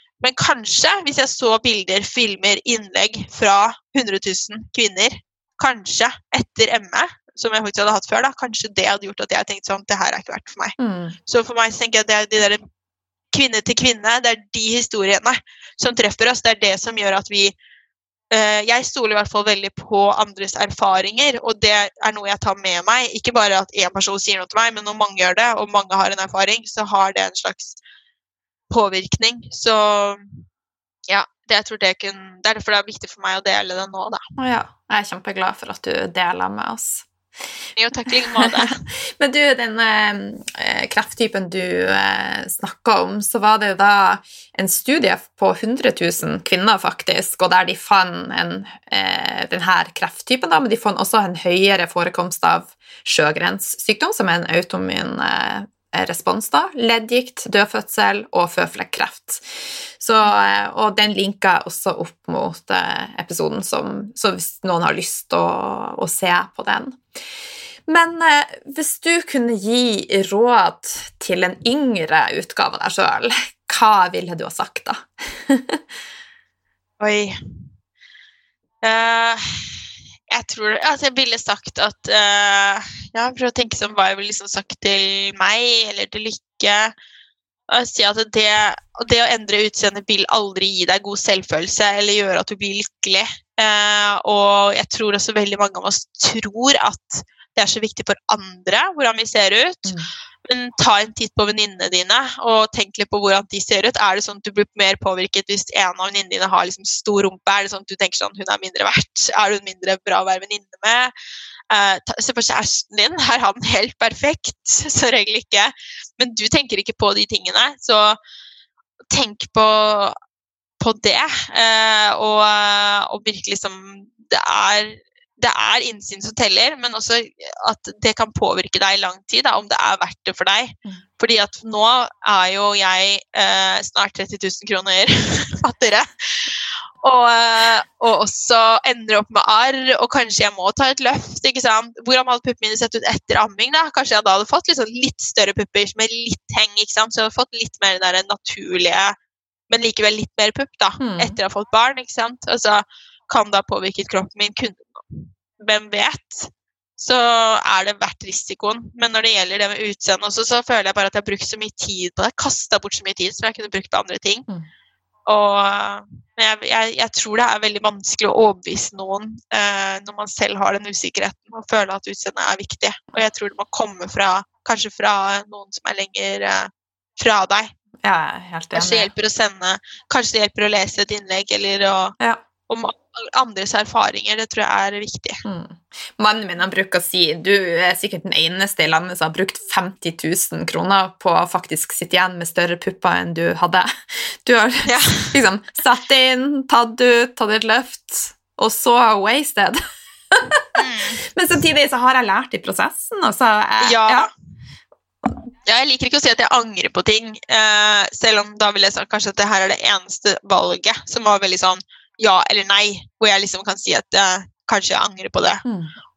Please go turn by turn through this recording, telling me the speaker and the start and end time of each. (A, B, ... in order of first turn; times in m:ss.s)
0:00.2-0:10.8 A
0:10.8-0:11.2 B
0:11.3-0:12.7 A
0:13.3-0:17.5 A
0:18.3-0:27.8 A
0:28.7-0:30.4 A
0:31.1-0:34.2 A
0:34.4-0:37.0 B
0:37.8-0:38.8 A
0:38.4-0:59.4 B
1:00.0-1:07.0 B
1:07.9-1:15.8 B
1:17.0-1:17.4 A
1:18.8-1:19.8 A
1:20.3-1:26.9 A
1:27.7-1:39.9 A
1:40.4-1:51.1 A
1:51.7-1:58.2 A
1:59.1-2:00.2 A
2:00.8-2:29.2 A
2:29.7-2:44.5 A
2:31.0-2:31.4 B
2:45.3-2:57.7 A
2:58.0-2:59.1 B
2:58.7-3:02.1 A
3:02.7-3:05.4 A
3:05.4-3:19.8 B
3:14.8-3:15.4 A
3:20.3-3:20.6 B
3:20.8-3:21.2 A
3:21.3-3:24.3 B
3:23.8-3:24.3 A
3:25.6-3:35.6 A
3:35.6-3:35.9 B